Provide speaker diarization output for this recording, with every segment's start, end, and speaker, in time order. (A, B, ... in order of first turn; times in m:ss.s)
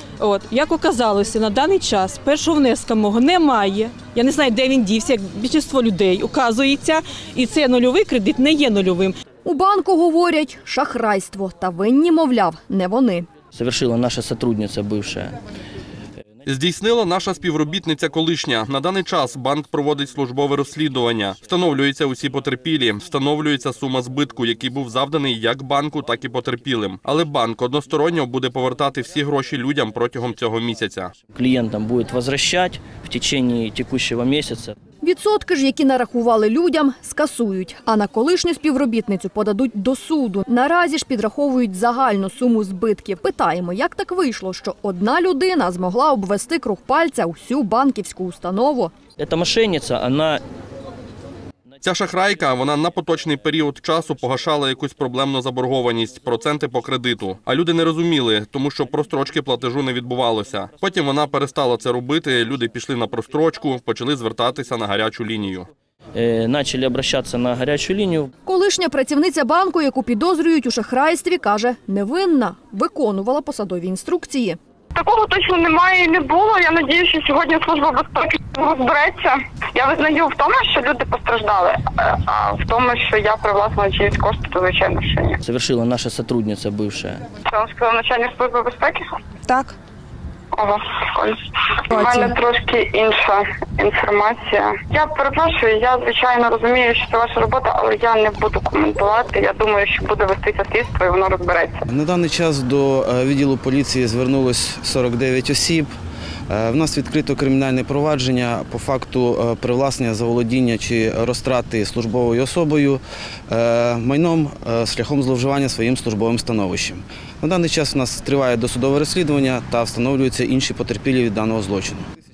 0:00.2-0:09.1 A
0:09.4-0:13.3 B
0:13.5-0:15.4 C
0:16.5-0:31.2 D
0:31.3-0:34.8 C
0:35.0-0:48.9 B
0:49.2-0:50.4 C
0:51.8-1:05.7 D
1:06.2-1:08.3 C
1:08.4-1:14.6 B
1:15.0-1:25.4 E
1:25.4-1:27.2 C
1:27.5-1:29.0 E
1:30.6-1:41.8 E
1:41.9-1:45.9 F
1:46.5-2:02.0 F